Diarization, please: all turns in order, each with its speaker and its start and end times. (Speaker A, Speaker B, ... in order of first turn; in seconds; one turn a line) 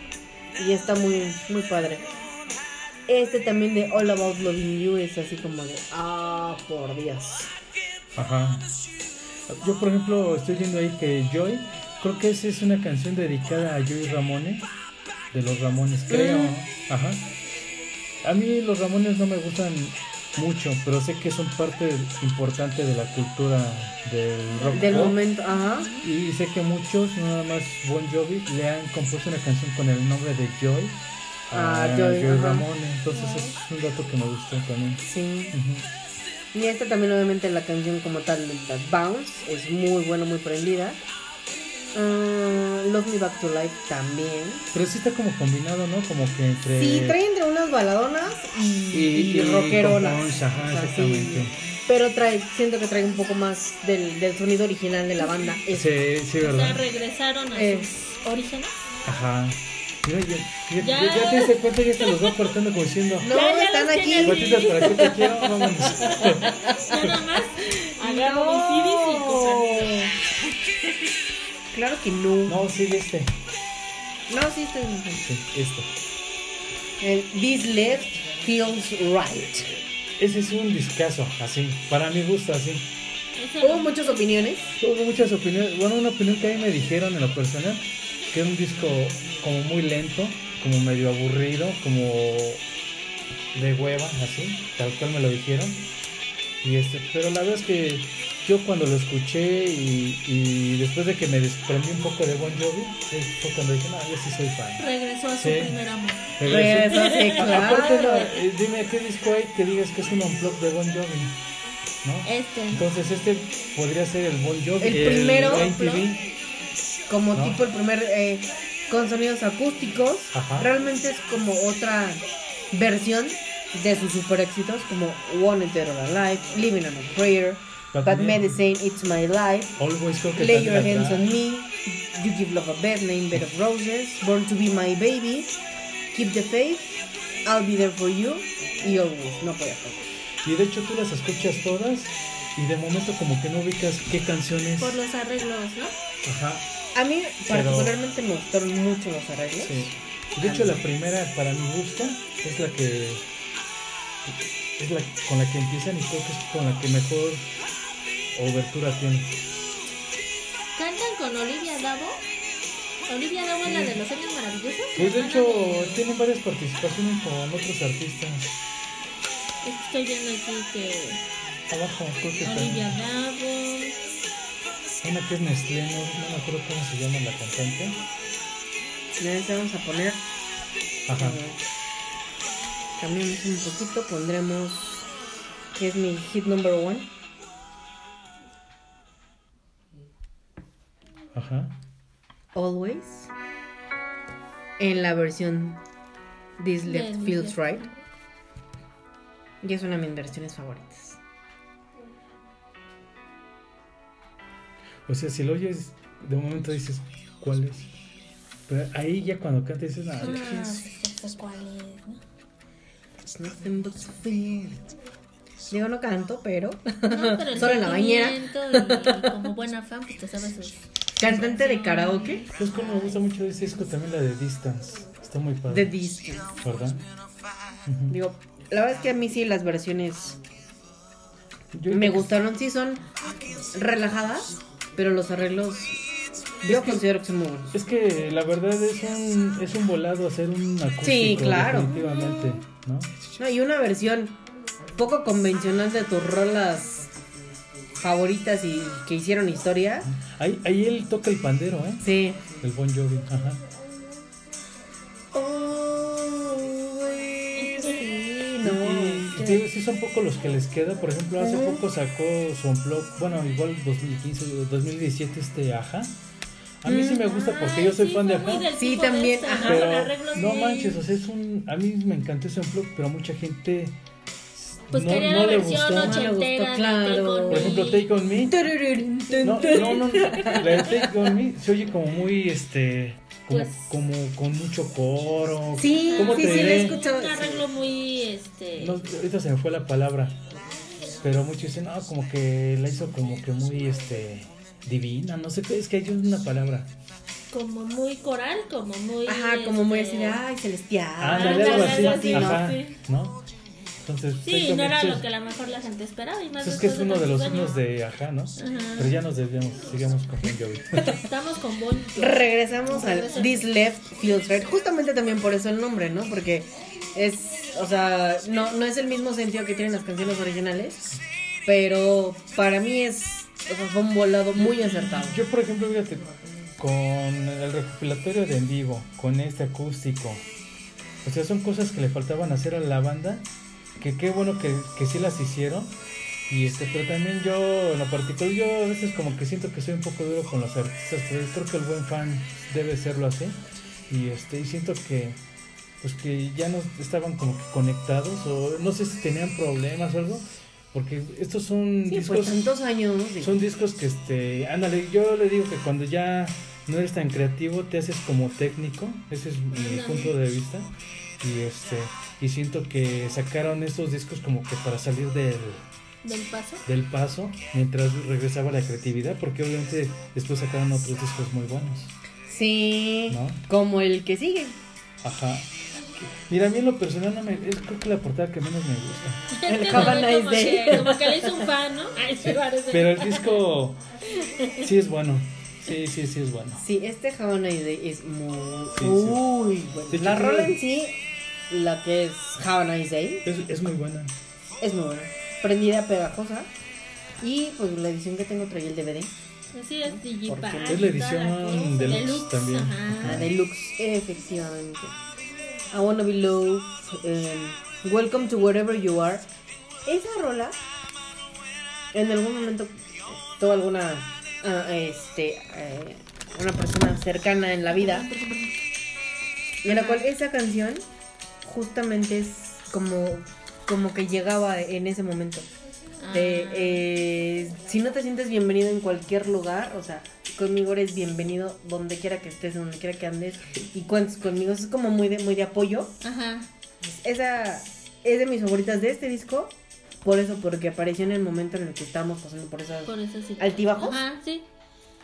Speaker A: 0.6-2.1
Speaker A: 3.1-7.5
Speaker B: 8.1-8.7
Speaker B: 9.5-14.7
Speaker B: 15.3-17.3
Speaker A: 16.1-16.5
Speaker B: 18.2-25.2
Speaker C: 24.5-26.1
Speaker A: 24.7-25.9
Speaker B: 26.0-35.9
Speaker A: 31.5-32.6
Speaker C: 33.1-33.5
Speaker A: 35.1-35.5
Speaker A: 36.5-41.0
Speaker A: 41.9-44.7
Speaker B: 44.7-47.2
Speaker A: 46.8-55.9
Speaker B: 48.9-51.5
Speaker B: 55.7-56.8
Speaker C: 56.4-58.7
Speaker A: 57.5-57.9
Speaker B: 59.0-63.4
Speaker C: 60.8-62.4
Speaker A: 63.2-66.7
Speaker C: 63.2-65.0
Speaker B: 64.2-67.2
Speaker C: 66.0-70.1
Speaker A: 68.0-70.1
Speaker A: 71.7-72.6
Speaker B: 72.5-73.3
Speaker A: 74.3-75.2
Speaker B: 75.2-75.9
Speaker A: 77.0-79.7
Speaker B: 80.2-82.9
Speaker C: 83.4-84.2
Speaker A: 83.6-84.6
Speaker B: 84.8-92.6
Speaker B: 93.5-95.9
Speaker B: 96.6-104.9
Speaker C: 104.8-108.0
Speaker B: 105.4-105.8
Speaker B: 106.3-111.4
Speaker A: 106.4-108.3
Speaker B: 112.0-116.2
Speaker C: 112.2-112.9
Speaker A: 114.8-116.1
Speaker A: 117.1-129.8
Speaker B: 117.3-117.6
Speaker B: 120.3-120.7
Speaker B: 127.9-128.6
Speaker B: 129.8-131.3
Speaker A: 130.3-135.6
Speaker A: 136.1-140.1
Speaker B: 140.4-145.0
Speaker C: 144.8-145.9
Speaker B: 146.2-146.7
Speaker A: 146.9-150.8
Speaker B: 147.5-148.0
Speaker B: 149.6-153.2
Speaker B: 154.2-157.4
Speaker B: 158.3-159.3
Speaker C: 160.8-162.2
Speaker C: 163.1-166.0
Speaker B: 164.9-168.6
Speaker C: 169.6-171.2
Speaker B: 171.7-173.0
Speaker C: 172.4-173.9
Speaker B: 175.0-178.0
Speaker A: 179.2-180.2
Speaker B: 181.1-181.4
Speaker A: 181.1-181.6
Speaker A: 183.0-185.0
Speaker A: 185.7-187.1
Speaker B: 191.3-191.7
Speaker A: 192.5-193.3
Speaker A: 194.8-195.8
Speaker A: 196.6-197.8
Speaker C: 196.8-197.9
Speaker A: 199.6-201.2
Speaker B: 205.1-207.9
Speaker B: 208.7-210.6
Speaker C: 210.2-212.2
Speaker A: 210.2-210.8
Speaker A: 213.2-214.9
Speaker A: 215.7-219.3
Speaker C: 217.1-222.5
Speaker A: 221.2-222.4
Speaker B: 222.5-225.9
Speaker A: 225.7-226.5
Speaker B: 226.5-227.1
Speaker B: 227.8-228.2
Speaker A: 228.1-230.4
Speaker B: 231.7-232.3
Speaker A: 231.9-236.0
Speaker A: 236.6-237.7
Speaker B: 236.6-237.0
Speaker B: 237.7-243.1
Speaker A: 241.0-242.2
Speaker A: 243.4-244.4
Speaker A: 244.9-247.1
Speaker A: 248.0-250.1
Speaker B: 250.1-253.6
Speaker A: 252.0-252.5
Speaker A: 255.3-259.6
Speaker C: 257.5-258.0
Speaker B: 258.6-266.2
Speaker A: 261.4-261.8
Speaker B: 266.8-268.7
Speaker A: 266.8-267.3
Speaker C: 267.3-271.0
Speaker A: 268.7-269.9
Speaker B: 269.6-274.0
Speaker B: 274.5-276.3
Speaker C: 274.9-278.1
Speaker A: 275.9-277.9
Speaker B: 277.5-278.6
Speaker A: 278.4-281.3
Speaker B: 279.4-287.0
Speaker C: 279.6-280.6
Speaker C: 283.5-283.9
Speaker A: 285.8-287.6
Speaker C: 286.0-289.0
Speaker B: 288.8-290.4
Speaker B: 291.2-296.9
Speaker C: 297.5-300.4
Speaker A: 299.3-302.7
Speaker B: 301.2-303.4
Speaker C: 301.3-303.0
Speaker B: 304.0-305.2
Speaker C: 304.4-307.8
Speaker B: 306.6-311.2
Speaker C: 308.6-309.2
Speaker C: 311.0-313.6
Speaker A: 312.2-321.1
Speaker A: 321.7-325.4
Speaker B: 324.6-326.3
Speaker B: 326.8-330.4
Speaker B: 331.2-335.9
Speaker B: 336.5-343.6
Speaker B: 344.1-345.4
Speaker B: 346.0-352.6
Speaker A: 352.1-353.5
Speaker B: 353.4-365.8
Speaker C: 359.7-360.3
Speaker C: 366.2-366.8
Speaker B: 366.9-372.1
Speaker A: 372.5-374.8
Speaker B: 373.3-373.6
Speaker B: 375.2-380.1
Speaker C: 379.5-383.6
Speaker A: 379.7-381.7
Speaker B: 382.4-384.0
Speaker C: 384.4-384.8
Speaker B: 384.8-386.8
Speaker A: 386.8-391.1
Speaker B: 388.9-389.4
Speaker B: 390.1-390.8
Speaker A: 391.7-393.4
Speaker B: 393.4-394.4
Speaker A: 394.8-396.7
Speaker A: 397.4-399.3
Speaker C: 399.7-403.4
Speaker A: 400.1-401.1
Speaker B: 400.9-403.5
Speaker A: 403.2-405.1
Speaker A: 405.9-409.5
Speaker A: 410.0-410.8
Speaker A: 412.1-418.3
Speaker C: 417.9-418.8
Speaker A: 419.8-421.0
Speaker C: 419.8-420.3
Speaker A: 421.6-425.7
Speaker C: 426.2-427.1
Speaker A: 426.3-436.2
Speaker C: 436.2-436.7
Speaker A: 437.0-444.2
Speaker C: 443.1-444.6